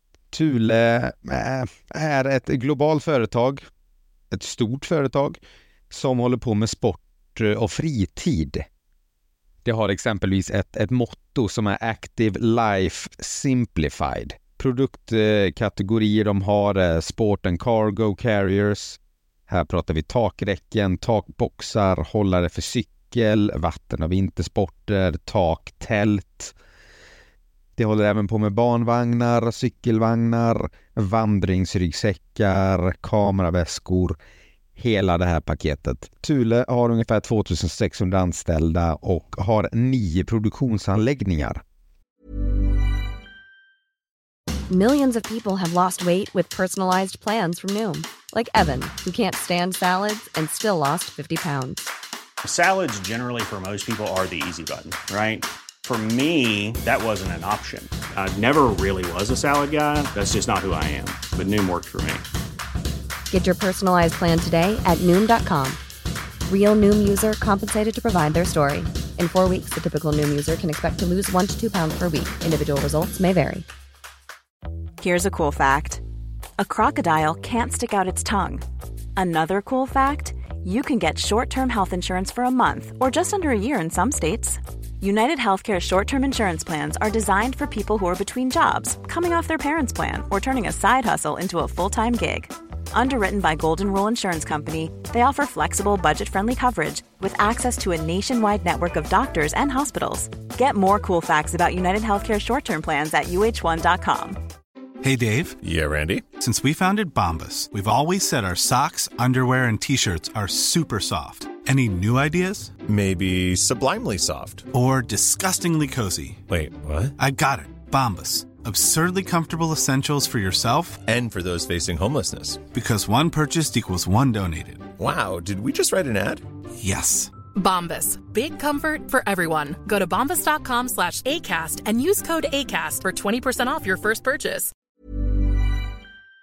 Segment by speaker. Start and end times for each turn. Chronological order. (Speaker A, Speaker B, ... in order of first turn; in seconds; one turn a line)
Speaker A: 0.3-3.6
Speaker A: 4.3-5.4
Speaker A: 5.9-8.6
Speaker A: 9.6-26.5
Speaker A: 27.8-34.2
Speaker A: 34.8-41.6
Speaker B: 44.7-51.9
Speaker C: 52.4-62.2
Speaker B: 63.3-65.8
Speaker B: 66.5-73.7
Speaker D: 75.0-76.0
Speaker D: 76.6-78.6
Speaker D: 79.2-104.4
Speaker E: 105.0-105.6
Speaker F: 105.6-106.2
Speaker E: 106.4-112.8
Speaker F: 112.8-114.7
Speaker E: 114.7-116.4
Speaker F: 116.5-117.1
Speaker E: 117.2-121.0
Speaker F: 121.0-122.6
Speaker E: 122.7-124.9
Speaker F: 125.0-126.4
Speaker E: 126.8-127.3
Speaker G: 127.5-134.7